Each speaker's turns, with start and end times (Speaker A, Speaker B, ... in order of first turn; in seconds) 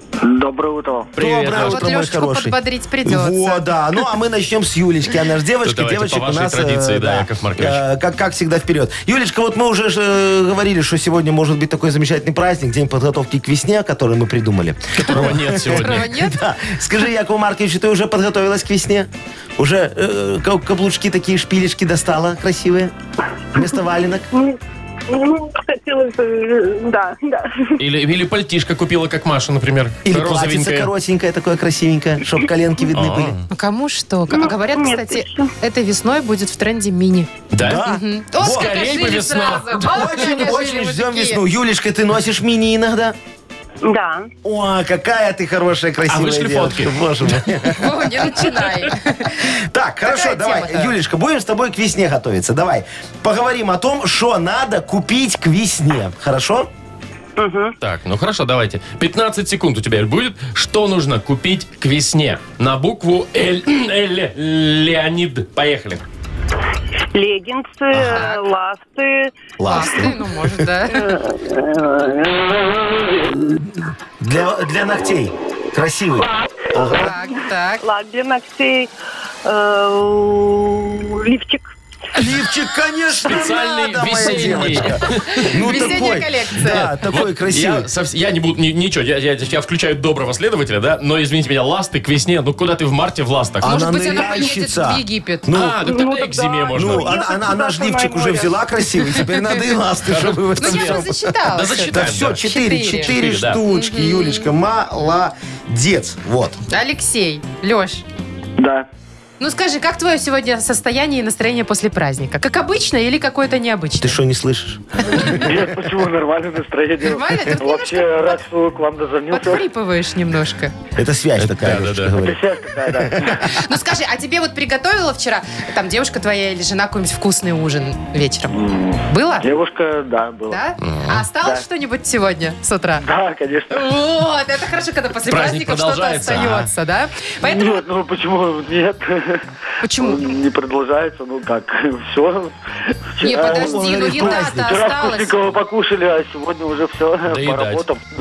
Speaker A: 0.2-1.1, 108.6-108.9, 115.2-119.7, 122.2-123.5, 128.6-130.6, 133.0-133.9, 137.4-139.4, 140.0-142.6, 143.2-148.0
Speaker B: 1.1-22.9, 23.5-24.3, 30.1-33.4, 37.5-38.8, 39.9-43.2, 44.4-48.5, 49.4-56.7, 69.6-70.3, 73.4-77.1, 82.2-87.9, 93.6-95.8, 96.7-106.6, 114.0-115.6, 121.0-123.5, 143.4-144.9
Speaker C: 1.2-1.9, 5.6-7.8, 14.9-16.1, 27.8-30.9, 32.9-33.4, 37.5-37.9, 38.4-40.2, 46.1-47.3, 57.8-66.0, 83.2-86.0, 86.7-93.8, 95.5-97.2, 100.1-101.0, 101.5-103.6, 121.4-122.2, 130.8-131.2, 135.3-136.7, 147.3-147.8
Speaker D: 1.5-3.7, 15.6-16.4, 33.5-41.4, 47.7-49.5, 50.0-51.0, 68.1-68.4, 69.7-71.1, 76.8-77.8, 85.2-86.9, 93.6-95.5, 99.1-99.5, 100.6-103.1, 103.7-104.5, 106.7-108.0, 109.4-114.2, 115.1-115.4, 117.0-118.5, 119.3-120.7, 123.4-128.6, 129.1-129.6, 130.5-133.1, 133.7-137.9, 139.8-140.4, 143.2-145.4
Speaker E: 25.1-27.1, 34.3-35.5, 43.8-44.3, 57.4-57.8, 67.1-69.4, 70.9-72.8, 77.8-78.9, 79.5-81.7, 95.9-98.5